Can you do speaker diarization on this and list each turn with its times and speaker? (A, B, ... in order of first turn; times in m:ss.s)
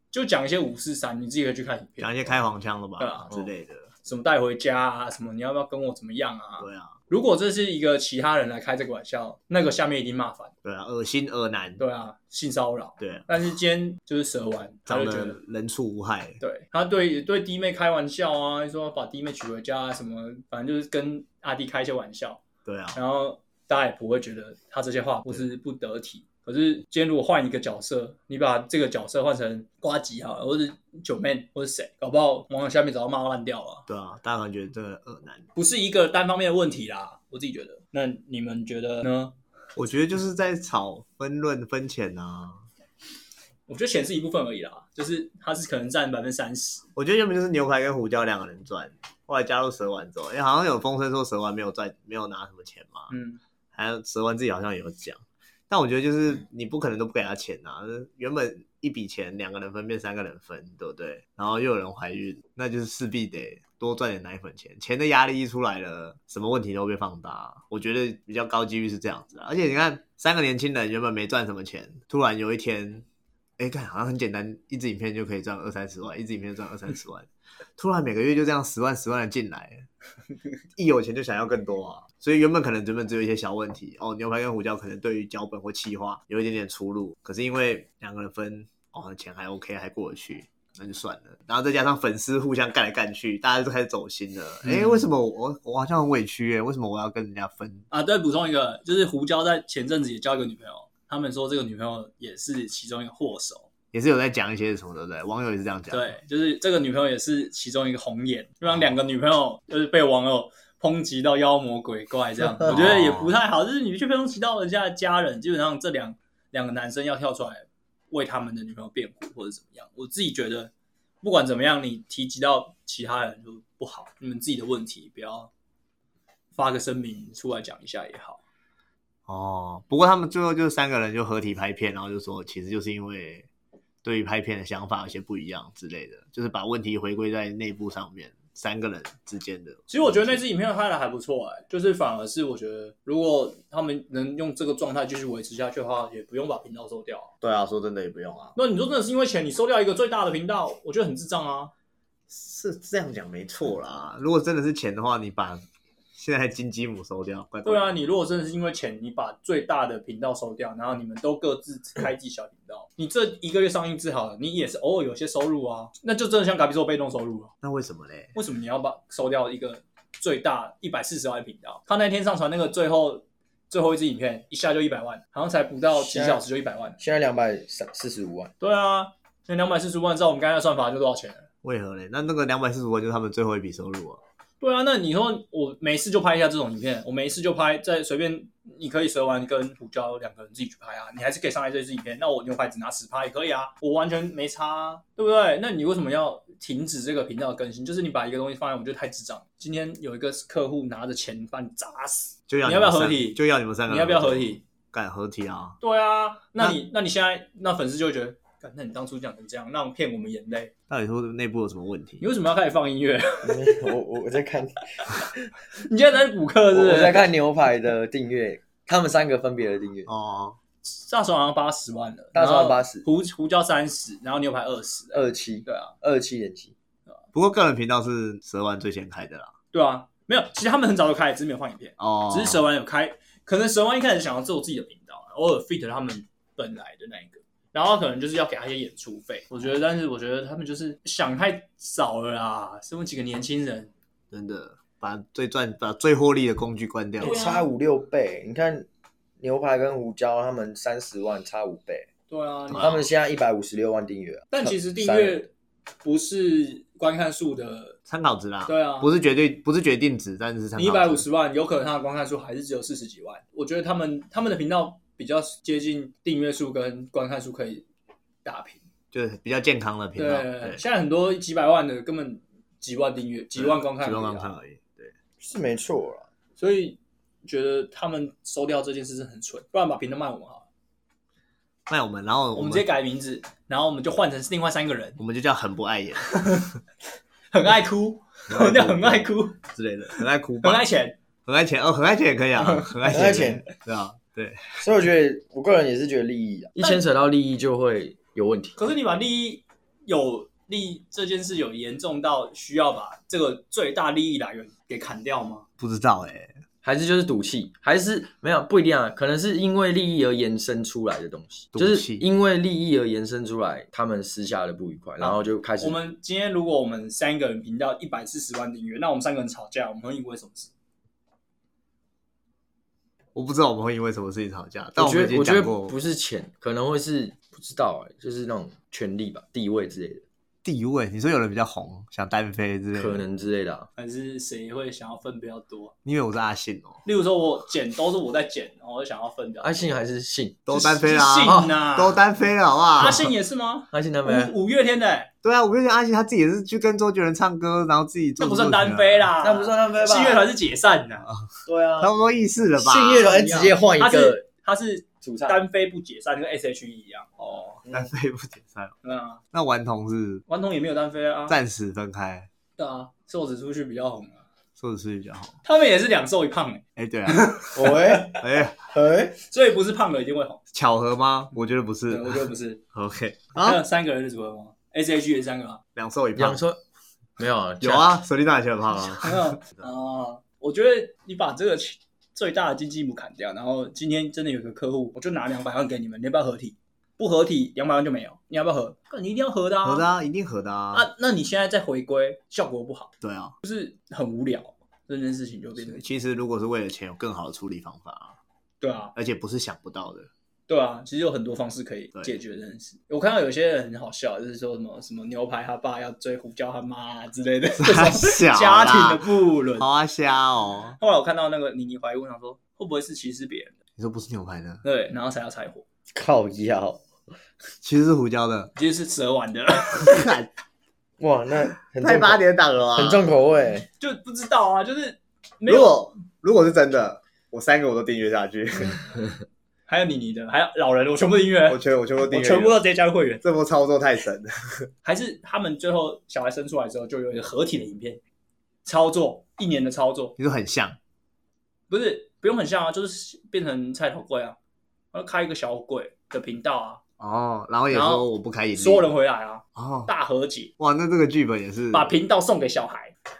0:00.1-0:02.4 A
0:02.0-0:03.9 B
0:03.0-0:03.3 A
0:04.0-0:10.5 A
0:06.6-0:06.9 B
0:10.6-0:11.8 B
0:11.8-0:15.4 A
0:13.0-0:13.3 B
0:14.9-0:16.4 B
0:16.4-0:22.4 A
0:22.6-0:23.0 B
0:22.9-0:33.8 A
0:33.9-0:35.5 B
0:35.6-0:39.4 A
0:39.8-0:42.6 B
0:43.7-0:46.8 A
0:47.0-0:53.1 B
0:53.1-0:53.4 A
0:53.7-1:13.0 B
1:13.6-1:19.9 B
1:20.8-1:37.9 B
1:34.6-1:35.0 A
1:37.9-1:43.7 A
1:43.9-1:46.1 B
1:45.9-2:00.7 A
1:52.6-1:53.4 B
2:01.2-2:05.5 A
2:06.5-2:08.4 A
2:09.3-2:13.5 B
2:14.0-2:20.4 B
2:19.9-2:27.3 A
2:27.4-2:28.6 B
2:28.6-2:31.7 A
2:32.3-2:35.6 B
2:36.1-2:38.0 B
2:37.6-2:47.5 A
2:47.6-2:48.3 B
2:48.4-2:57.0 A
2:55.9-2:56.4 C
2:57.0-2:58.5 C
2:58.6-3:01.5 A
3:01.6-3:04.2 B
3:04.6-3:24.6 A
3:22.5-3:25.8 B
3:25.8-3:30.7 A
3:30.9-3:32.2 B
3:32.2-3:33.9 A
3:33.4-3:35.4 C
3:35.7-3:37.3 A
3:36.7-3:40.1 C
3:40.1-3:40.6 B
3:40.8-3:45.9 A
3:42.4-3:43.1 C
3:45.1-3:46.7 C
3:47.3-3:49.5 B
3:49.7-4:03.9 A
3:52.0-3:52.6 B
4:04.3-4:07.4 B
4:07.2-4:07.7 A
4:07.2-4:08.9 C
4:09.4-4:12.1 C
4:12.3-4:13.0 A
4:12.8-4:15.4 C
4:14.5-4:15.5 A
4:16.0-4:18.0 A
4:18.1-4:21.2 B
4:18.6-4:19.1 A
4:20.8-4:27.8 A
4:28.4-4:28.8 A
4:29.1-4:30.8 B
4:30.2-4:34.5 A
4:33.6-4:35.1 B
4:35.4-4:36.3 C
4:36.6-4:40.6 A
4:41.9-4:42.9 B
4:42.5-4:45.2 A
4:45.2-4:46.4 B
4:46.2-4:46.7 A
4:47.5-4:49.6 A
4:48.5-4:50.9 B
4:50.2-4:51.1 A
4:51.5-4:54.9 B
4:52.6-4:53.3 A
4:53.1-4:53.6 C
4:54.8-4:58.8 C
4:58.8-5:05.6 A
5:05.8-5:06.6 B
5:06.8-5:16.0 C
5:11.7-5:12.2 B
5:15.2-5:20.7 A
5:23.4-5:26.0 B
5:25.0-5:30.2 C
5:30.6-5:33.2 B
5:32.9-5:33.9 C
5:34.0-5:35.9 A
5:36.0-5:37.0 B
5:37.0-5:39.9 A
5:39.6-5:40.6 C
5:40.7-5:43.3 B
5:40.7-5:42.2 A
5:41.4-5:41.7 C
5:43.0-5:45.3 A
5:43.9-5:44.5 C
5:45.4-5:49.3 B
5:48.4-5:51.3 A
5:49.4-5:50.5 C
5:51.6-5:52.1 C
5:52.0-5:53.4 B
5:52.8-5:54.4 C
5:53.2-5:57.8 A
5:55.2-5:55.6 C
5:57.9-5:59.0 B
5:59.0-5:59.4 A
5:59.5-6:00.4 B
6:00.5-6:01.6 A
6:01.5-6:02.5 B
6:02.8-6:04.4 A
6:04.8-6:05.6 B
6:05.6-6:08.4 A
6:07.0-6:07.6 B
6:07.8-6:09.4 C
6:08.4-6:08.8 B
6:09.4-6:10.6 A
6:10.7-6:13.8 B
6:12.1-6:12.8 A
6:13.6-6:15.8 A
6:16.0-6:16.6 B
6:16.4-6:16.8 C
6:17.4-6:18.1 C
6:17.8-6:19.8 B
6:19.2-6:30.1 A
6:29.8-6:31.1 B
6:30.9-6:36.0 A
6:33.2-6:33.5 B
6:35.8-6:38.4 B
6:38.8-6:39.1 A
6:39.1-6:40.3 B
6:40.7-6:49.9 A
6:47.8-6:49.2 B
6:49.8-6:51.0 B
6:51.0-6:53.8 A
6:54.0-6:54.8 B
6:54.8-6:55.8 A
6:56.1-6:57.0 C
6:57.8-6:58.7 B
6:58.8-7:00.3 A
7:00.0-7:00.5 B
7:01.2-7:02.4 C
7:02.0-7:03.2 B
7:03.0-7:03.9 C
7:04.0-7:06.0 A
7:05.6-7:09.1 B
7:09.9-7:13.4 A
7:11.7-7:12.8 B
7:13.4-7:14.9 B
7:15.0-7:18.2 A
7:18.8-7:20.3 A
7:20.4-7:21.0 B
7:21.9-7:24.6 A
7:25.1-7:27.0 A
7:27.2-7:29.1 B
7:27.9-7:30.7 A
7:29.8-7:30.1 B
7:30.8-7:32.1 B
7:31.9-7:33.1 A